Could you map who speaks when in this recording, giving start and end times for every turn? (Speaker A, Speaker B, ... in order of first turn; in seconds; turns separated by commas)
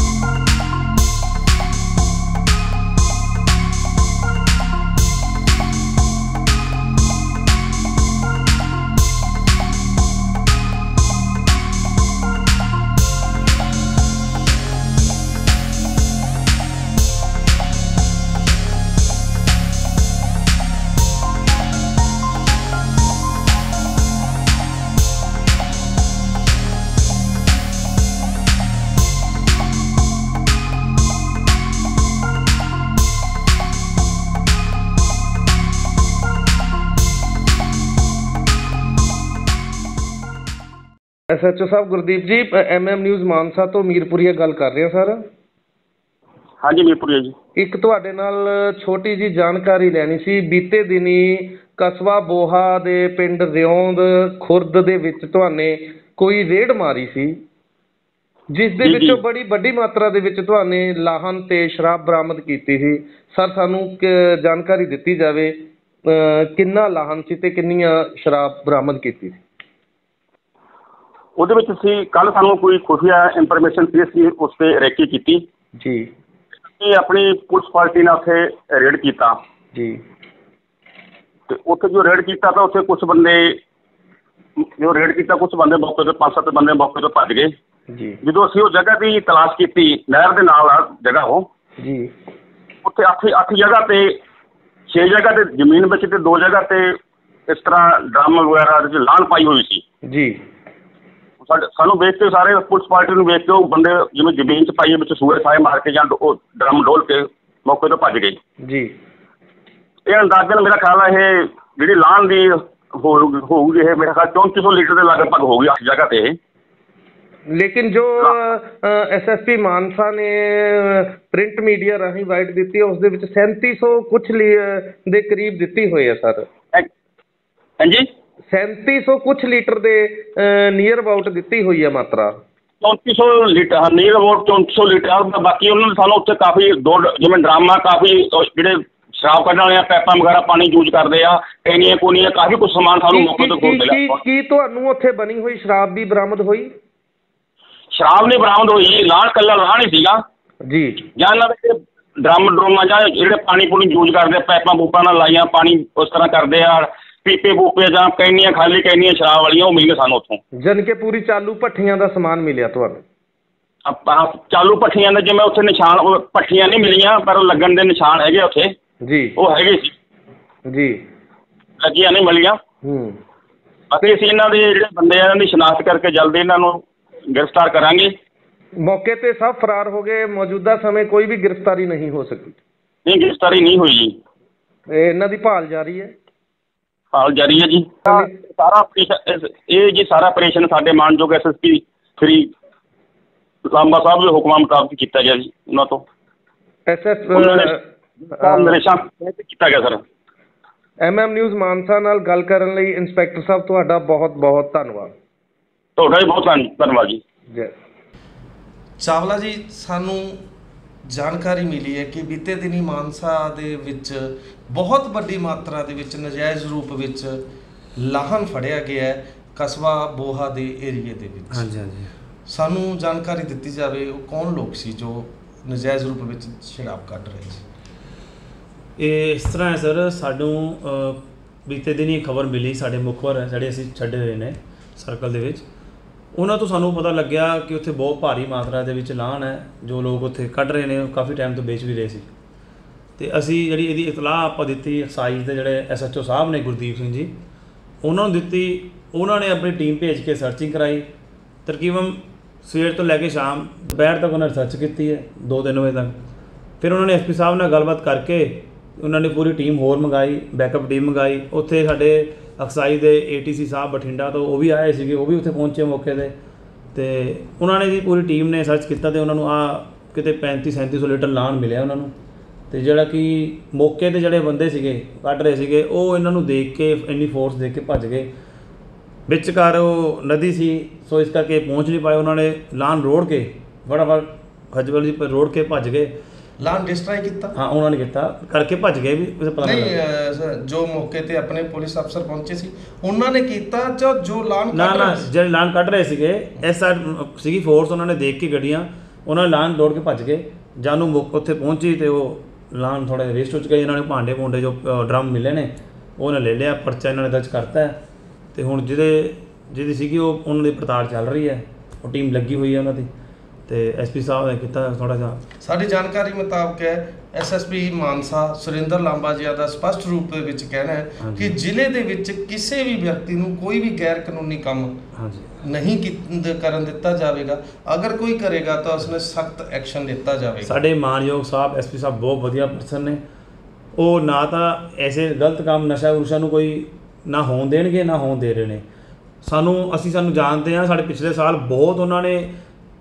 Speaker A: 41.3-45.2, Speaker B: 46.6-47.3, Speaker A: 47.6-57.4, Speaker A: 58.5-69.4, Speaker B: 58.8-59.2, Speaker B: 71.4-75.4, Speaker A: 75.8-76.1, Speaker B: 76.8-79.3, Speaker A: 79.7-80.0, Speaker B: 81.5-83.6, Speaker B: 84.6-87.5, Speaker A: 87.9-88.2, Speaker B: 88.2-91.5, Speaker A: 91.8-92.1, Speaker B: 92.8-94.1, Speaker B: 94.9-96.9, Speaker B: 97.5-99.8, Speaker A: 100.1-100.4, Speaker B: 101.5-108.4, Speaker A: 108.6-108.9, Speaker B: 110.1-116.4, Speaker A: 117.5-126.5, Speaker A: 128.5-132.4, Speaker B: 132.8-144.2, Speaker A: 143.1-146.7, Speaker B: 147.9-150.2, Speaker A: 150.7-151.1, Speaker B: 151.2-160.4, Speaker A: 160.6-163.0, Speaker B: 163.9-168.7, Speaker A: 169.0-169.3, Speaker B: 169.4-169.9, Speaker A: 170.7-171.0, Speaker B: 171.8-172.6, Speaker A: 172.8-173.2, Speaker B: 173.9-178.1, Speaker A: 178.8-182.6, Speaker B: 183.1-184.2, Speaker A: 184.9-186.1, Speaker B: 187.1-192.5, Speaker B: 193.7-196.0, Speaker A: 196.9-197.8, Speaker B: 197.3-197.7, Speaker B: 198.3-200.0, Speaker A: 198.4-198.8, Speaker A: 201.0-205.1, Speaker B: 206.0-207.2, Speaker C: 209.0-210.4, Speaker C: 211.1-217.4, Speaker C: 218.0-221.7, Speaker D: 221.5-222.1, Speaker C: 222.5-227.6, Speaker D: 229.0-235.7, Speaker D: 236.3-242.3, Speaker D: 243.2-247.3, Speaker D: 248.0-251.1, Speaker D: 251.7-256.2, Speaker D: 256.8-266.3, Speaker D: 266.9-272.1, Speaker D: 272.7-278.3, Speaker D: 279.3-286.1, Speaker C: 286.6-287.6, Speaker D: 287.5-290.0, Speaker C: 289.6-295.3, Speaker D: 294.7-308.0, Speaker D: 308.5-313.1, Speaker D: 313.7-315.4, Speaker C: 315.6-324.9, Speaker D: 321.2-321.6, Speaker D: 325.1-325.6, Speaker C: 325.6-330.8, Speaker D: 330.6-333.2, Speaker D: 334.0-338.8, Speaker D: 339.4-342.5